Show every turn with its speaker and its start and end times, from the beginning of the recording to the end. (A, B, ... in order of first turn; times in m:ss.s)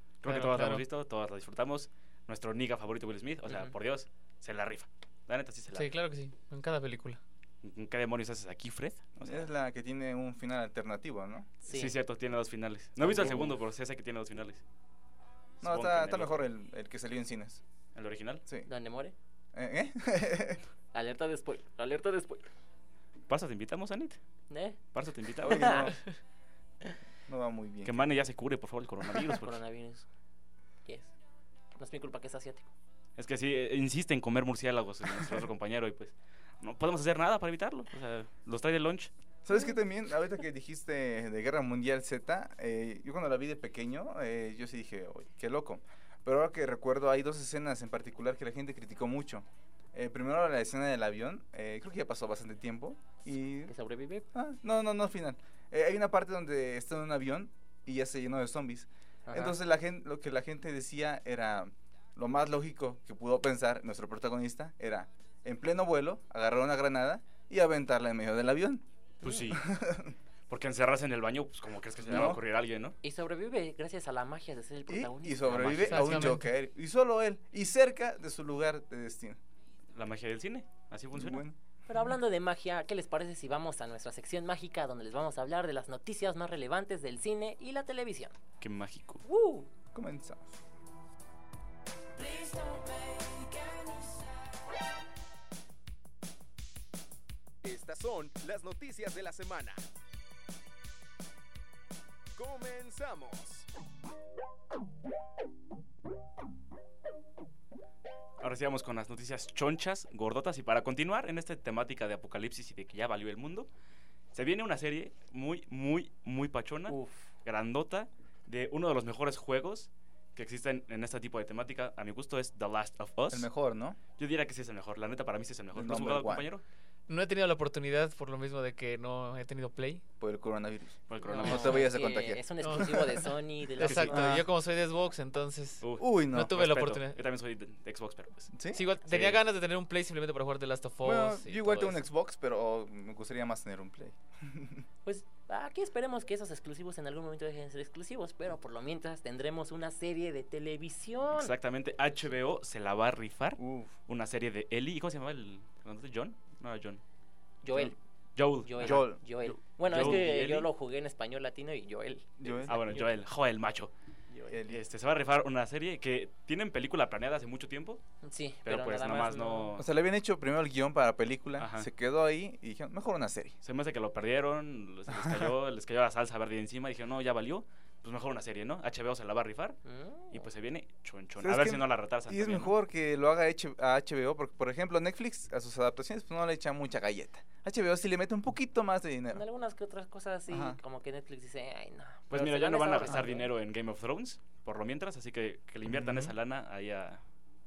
0:00.2-0:05.9 A
0:00.2-0:00.8 B
0:03.5-0:03.7 C
0:05.7-0:07.2 B
0:07.6-0:09.5 A
0:09.2-0:11.5 D
0:11.6-0:11.9 C
0:11.7-0:14.6 A
0:13.0-0:13.6 D
0:15.6-0:16.4 A
0:15.6-0:17.6 D
0:17.9-0:18.4 A
0:18.6-0:19.1 C
0:19.5-0:20.6 D
0:20.9-0:22.5 C
0:23.3-0:24.2 A
0:24.5-0:24.8 C
0:24.9-0:25.9 A
0:25.4-0:26.0 D
0:25.5-0:25.9 C
0:27.3-0:28.0 D
0:27.8-0:29.6 A
0:29.3-0:30.1 C
0:30.8-0:31.1 C
0:31.7-0:32.7 C
0:33.2-0:39.1 A
0:39.4-0:53.7 D
0:53.7-0:54.2 C
0:54.3-1:08.8 D
0:59.3-0:59.6 C
1:09.2-1:09.7 A
1:09.2-1:09.5 C
1:09.5-1:10.2 D
1:10.5-1:13.0 A
1:12.0-1:12.4 D
1:13.0-1:15.9 C
1:14.9-1:19.4 D
1:15.4-1:16.3 A
1:15.8-1:16.5 B
1:19.9-1:21.4 A
1:21.1-1:21.6 D
1:21.9-1:28.3 C
1:28.6-1:29.2 A
1:29.2-1:29.7 C
1:29.9-1:30.5 D
1:32.2-1:34.1 C
1:37.6-1:39.8 E
1:42.4-1:43.7 E
1:48.4-1:53.7 A
1:54.3-2:03.5 A
1:56.9-1:57.3 C
2:03.3-2:04.0 D
2:04.2-2:06.6 A
2:05.7-2:06.5 D
2:07.1-2:10.0 B
2:10.2-2:12.8 D
2:11.1-2:11.9 A
2:11.2-2:14.3 C
2:12.6-2:17.2 B
2:13.8-2:14.2 A
2:14.1-2:14.4 D
2:15.8-2:18.5 A
2:16.0-2:16.6 D
2:18.5-2:18.8 D
2:18.7-2:22.0 B
2:19.0-2:19.4 A
2:21.0-2:24.8 D
2:25.0-2:31.5 C
2:31.3-2:37.0 A
2:33.6-2:33.9 D
2:37.6-2:37.9 C
2:37.7-2:40.7 A
2:38.6-2:43.0 C
2:38.8-2:39.2 D
2:39.9-2:40.2 D
2:42.4-2:43.0 D
2:42.6-2:43.9 A
2:44.3-2:44.6 C
2:44.5-2:44.8 D
2:44.7-2:48.0 A
2:48.2-2:49.7 C
2:48.6-2:49.9 A
2:49.8-2:53.6 D
2:51.6-2:51.9 A
2:53.6-2:59.8 A
2:55.2-2:55.5 D
2:59.8-3:00.5 C
3:00.3-3:02.7 A
3:01.4-3:09.4 D
3:09.3-3:13.5 C
3:10.5-3:10.8 D
3:12.3-3:17.2 A
3:15.8-3:16.3 D